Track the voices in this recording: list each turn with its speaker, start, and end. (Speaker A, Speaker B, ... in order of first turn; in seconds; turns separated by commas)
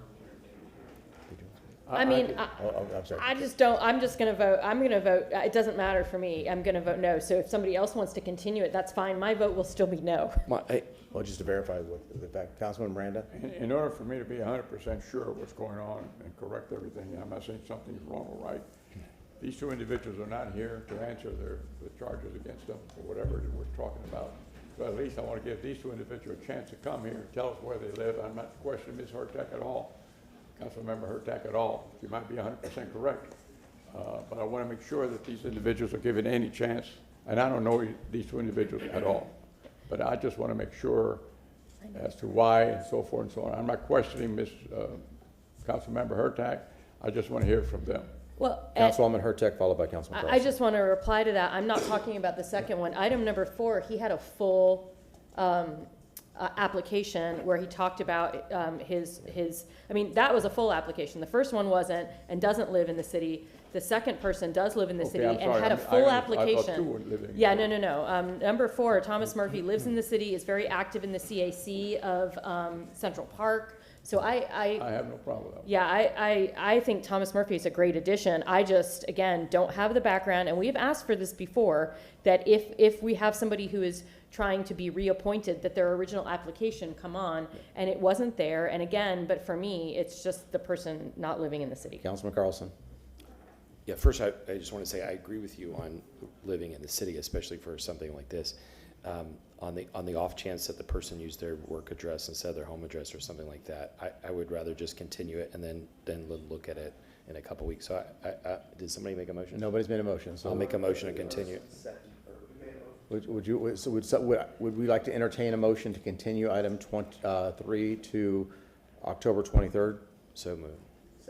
Speaker A: 1.9-2.4, Speaker B: 1.9-10.4, Speaker C: 2.6-3.2, Speaker D: 10.5-10.9, Speaker C: 11.1-13.3, Speaker A: 13.3-18.6, Speaker A: 19.4-29.9, Speaker A: 30.6-33.3, Speaker A: 33.9-39.3, Speaker A: 39.9-41.2, Speaker A: 41.9-45.0, Speaker A: 45.6-48.1, Speaker B: 48.4-49.0, Speaker C: 48.8-50.5, Speaker B: 50.1-74.9, Speaker A: 65.0-67.7, Speaker A: 74.8-75.7, Speaker B: 75.6-92.0, Speaker C: 92.0-92.7, Speaker D: 93.9-109.6, Speaker C: 109.5-110.6, Speaker D: 110.4-111.6, Speaker C: 113.1-118.5, Speaker C: 119.0-120.0, Speaker D: 120.3-120.8